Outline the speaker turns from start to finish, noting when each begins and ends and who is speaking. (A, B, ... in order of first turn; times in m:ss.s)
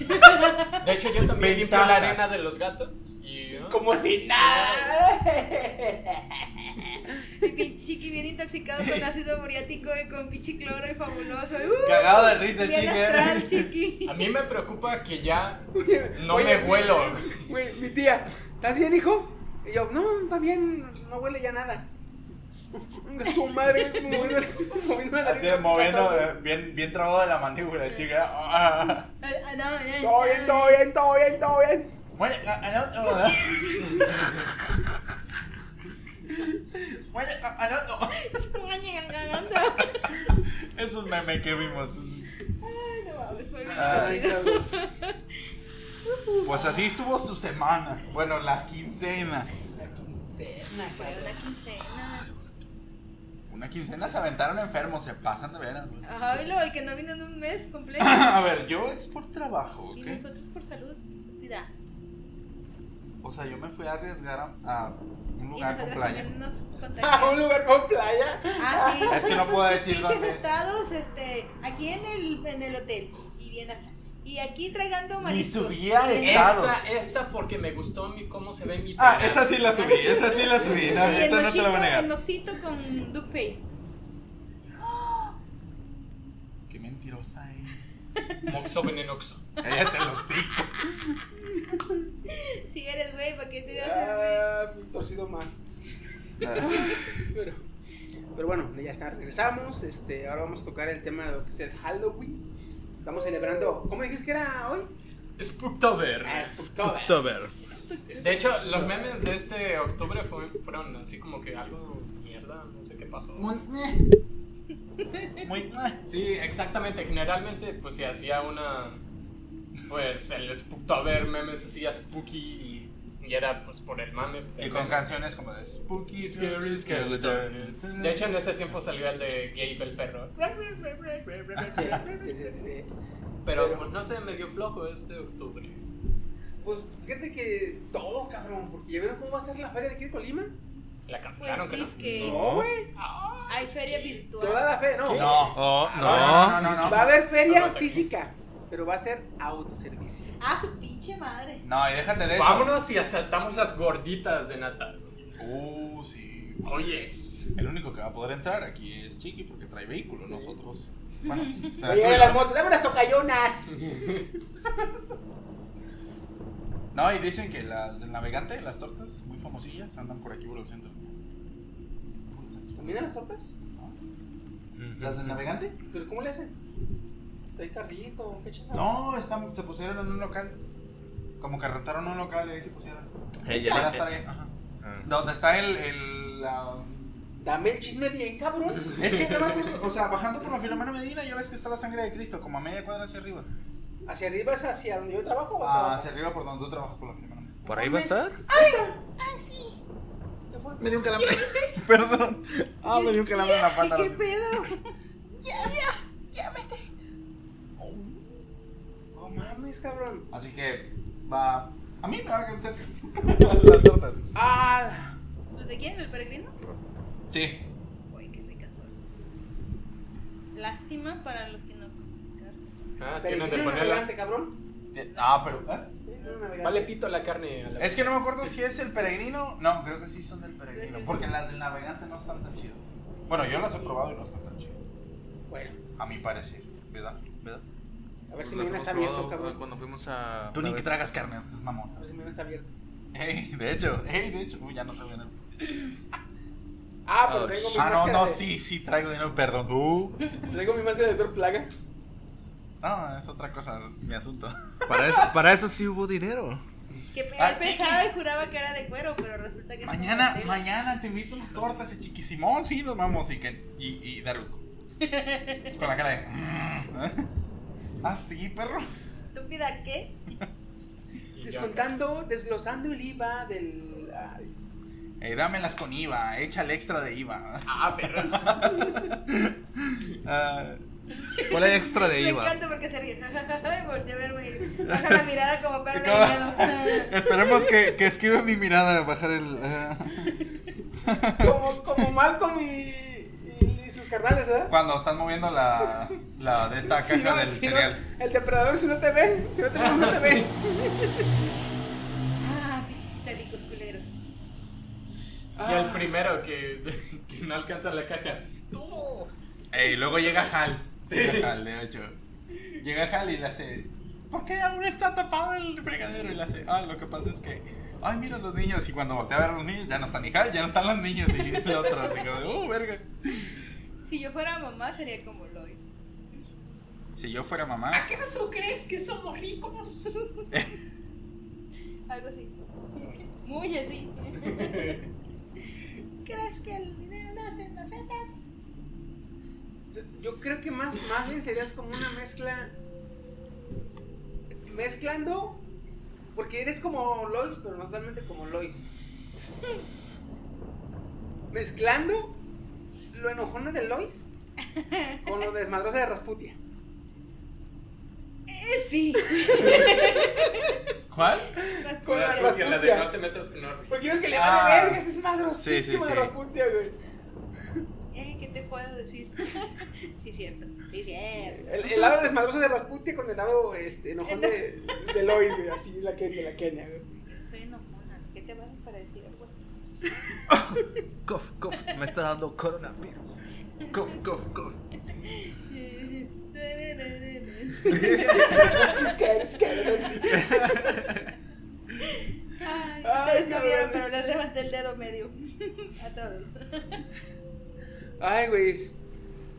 0:00.1-0:00.8 A
0:00.7-0:03.8 B
0:01.4-0:02.3 C
0:03.6-0:07.5 D
0:04.4-0:04.9 B
0:07.4-0:14.2 A
0:08.8-0:09.1 C
0:11.8-0:13.7 C
0:14.0-0:17.5 B
0:15.7-0:21.9 D
0:22.7-0:26.3 D
0:24.1-0:24.4 B
0:25.2-0:29.1 C
0:29.2-0:30.8 A
0:30.0-0:31.9 D
0:32.1-0:34.1 C
0:33.1-0:34.1 A
0:36.6-0:38.2 C
0:38.2-0:40.4 A
0:40.0-0:42.3 C
0:42.6-0:45.2 A
0:43.7-0:44.8 D
0:43.7-0:44.3 C
0:46.0-0:46.9 A
0:46.4-0:49.5 C
0:49.7-0:51.4 D
0:50.9-0:52.3 A
0:53.5-0:56.0 C
0:56.0-0:58.6 A
0:58.0-1:00.2 C
0:59.9-1:01.7 A
1:03.2-1:06.3 C
1:05.5-1:07.4 A
1:07.0-1:09.5 D
1:08.6-1:16.6 A
1:09.1-1:10.5 C
1:15.2-1:16.8 C
1:16.2-1:19.6 B
1:19.0-1:22.1 C
1:19.7-1:23.6 A
1:20.6-1:21.1 B
1:26.7-1:27.8 C
1:28.4-1:29.4 B
1:29.6-1:31.2 C
1:32.3-1:34.5 A
1:33.7-1:35.6 D
1:36.4-1:37.6 D
1:36.4-1:37.0 C
1:38.3-1:42.4 D
1:43.0-1:44.9 D
1:45.4-1:46.7 B
1:46.2-1:47.3 D
1:46.7-1:47.5 E
1:47.7-1:48.7 A
1:48.1-1:49.2 D
1:48.2-1:53.5 B
1:53.4-1:54.0 C
1:55.4-1:56.0 C
1:56.1-1:59.0 B
1:59.9-2:05.0 B
2:04.6-2:08.3 C
2:06.2-2:10.3 B
2:10.4-2:12.6 A
2:11.6-2:12.0 C
2:11.7-2:12.9 D
2:13.4-2:15.8 B
2:13.5-2:13.9 D
2:16.6-2:20.5 D
2:21.1-2:22.0 B
2:21.4-2:22.5 A
2:22.0-2:22.7 E
2:22.1-2:22.9 D
2:23.0-2:24.2 B
2:23.5-2:24.8 A
2:24.3-2:25.5 D
2:25.0-2:27.0 C
2:25.5-2:28.1 B
2:25.5-2:26.9 E
2:26.2-2:30.3 D
2:30.4-2:31.6 A
2:31.6-2:32.8 C
2:32.2-2:35.2 B
2:35.4-2:36.9 C
2:36.6-2:37.5 B
2:37.5-2:42.5 C
2:41.3-2:41.8 A
2:41.8-2:43.9 D
2:43.7-2:44.3 B
2:46.9-2:51.2 C
2:52.3-2:53.1 C
2:52.8-2:53.5 D
2:54.8-2:55.4 E
2:55.0-2:55.8 C
2:55.9-2:56.5 D
2:57.6-2:59.0 D
2:58.7-3:00.6 C
3:01.4-3:04.5 C
3:03.4-3:04.2 E
3:04.8-3:05.1 E
3:05.0-3:07.3 C
3:07.4-3:09.8 D
3:08.9-3:13.5 C
3:09.0-3:09.5 B
3:14.0-3:16.1 D
3:15.6-3:17.6 C
3:17.6-3:18.4 E
3:17.6-3:18.9 D
3:18.5-3:19.7 A
3:20.5-3:21.4 D
3:21.1-3:21.8 A
3:21.7-3:24.6 C
3:22.9-3:24.9 A
3:25.4-3:26.8 A
3:27.8-3:28.1 C
3:29.1-3:30.3 D
3:30.3-3:34.3 C
3:34.3-3:35.2 D
3:35.5-3:36.6 A
3:37.3-3:37.6 C
3:38.1-3:38.9 A
3:40.5-3:42.6 A
3:43.0-3:44.1 B
3:43.2-3:44.6 D
3:44.9-3:45.9 C
3:45.1-3:46.4 A
3:46.0-3:46.9 D
3:46.6-3:48.6 B
3:47.8-3:54.8 C
3:50.7-3:51.3 A
3:55.5-3:55.8 D
3:56.0-3:57.6 C
3:58.3-3:59.6 D
3:58.4-4:01.0 E
4:00.5-4:01.9 C
4:01.9-4:02.7 D
4:03.1-4:05.4 C
4:07.0-4:08.4 D
4:07.2-4:07.9 E
4:07.7-4:10.4 C
4:10.4-4:11.7 D
4:12.8-4:15.3 C
4:14.9-4:16.6 E
4:17.1-4:20.6 A
4:17.4-4:18.1 C
4:19.8-4:24.6 C
4:25.0-4:25.8 A
4:25.8-4:27.2 C
4:28.0-4:28.9 C
4:29.3-4:30.1 A
4:31.3-4:31.9 B
4:31.4-4:34.5 D
4:35.2-4:40.8 C
4:37.6-4:38.7 B
4:41.2-4:47.2 A
4:41.4-4:42.5 C
4:44.8-4:45.3 C
4:45.9-4:50.4 C
4:51.0-4:52.1 C
4:51.4-4:54.7 D
4:54.7-4:58.0 C
4:56.8-5:01.3 D
4:59.7-5:00.5 B
5:02.4-5:04.1 A
5:05.6-5:06.2 D
5:05.6-5:09.3 B
5:09.7-5:12.2 C
5:10.0-5:10.5 B
5:11.0-5:11.5 B
5:12.8-5:23.5 C
5:24.0-5:25.8 A
5:27.1-5:28.1 C
5:27.9-5:30.3 B
5:30.5-5:30.8 C
5:32.1-5:35.0 A
5:34.4-5:35.0 B
5:36.2-5:38.4 A
5:39.9-5:42.7 D
5:44.6-5:45.6 D
5:46.3-5:48.8 D
5:51.5-5:52.4 D
5:53.1-5:54.3 D
5:54.7-5:55.2 A
5:55.2-5:56.6 D
5:58.5-6:00.8 A
5:59.5-6:00.2 D
6:01.1-6:01.5 C
6:01.5-6:03.1 D
6:01.8-6:02.6 A
6:02.1-6:04.0 B
6:03.9-6:07.0 D
6:04.3-6:06.3 C
6:08.1-6:12.1 A
6:11.4-6:17.0 D
6:14.3-6:15.1 A
6:17.3-6:19.6 A
6:20.5-6:23.3 E
6:23.9-6:24.8 E
6:23.9-6:24.2 A
6:25.2-6:29.0 A
6:27.8-6:28.9 E
6:27.9-6:30.5 D
6:30.1-6:31.1 A
6:30.6-6:31.2 E
6:32.1-6:37.0 A
6:33.0-6:34.1 D
6:38.2-6:39.0 D